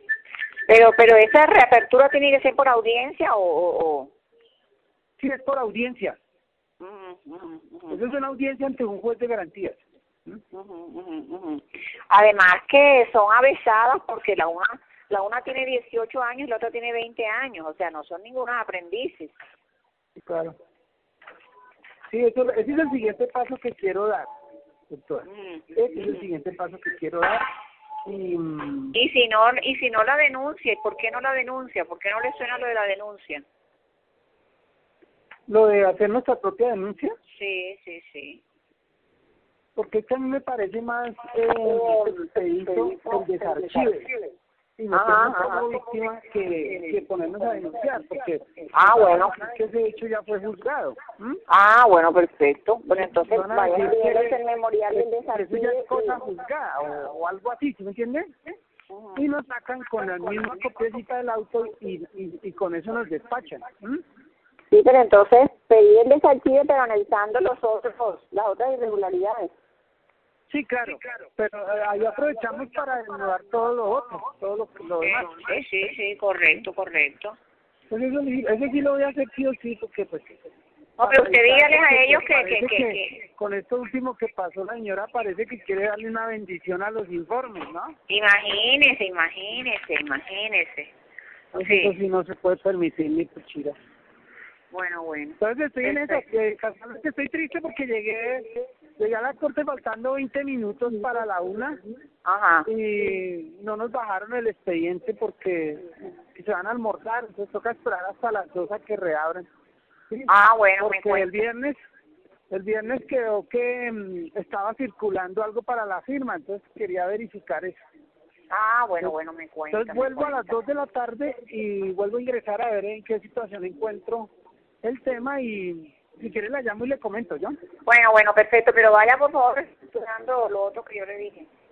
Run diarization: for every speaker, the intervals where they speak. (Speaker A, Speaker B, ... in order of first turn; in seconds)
Speaker A: 0.7-4.1, 6.8-8.0, 10.5-19.3, 25.3-25.6, 28.9-33.4, 37.3-38.4, 42.8-43.9, 44.9-45.6, 48.7-49.4, 51.5-56.2, 58.9-59.2, 64.7-69.5, 75.0-77.4, 81.0-83.2, 88.1-90.9, 91.5-92.0, 94.7-96.2, 102.2-102.7, 110.3-111.3, 118.5-120.6, 127.8-131.5
Speaker B: 5.2-6.2, 7.9-10.4, 20.2-20.6, 22.1-24.3, 24.9-27.5, 28.0-29.0, 35.5-37.1, 39.8-44.1, 44.8-51.4, 53.0-54.4, 55.0-58.5, 59.1-64.0, 70.5-75.5, 77.9-80.4, 81.0-88.0, 91.5-93.8, 95.4-101.8, 102.7-109.5, 110.1-111.8, 112.5-117.8, 119.7-124.3, 124.8-127.5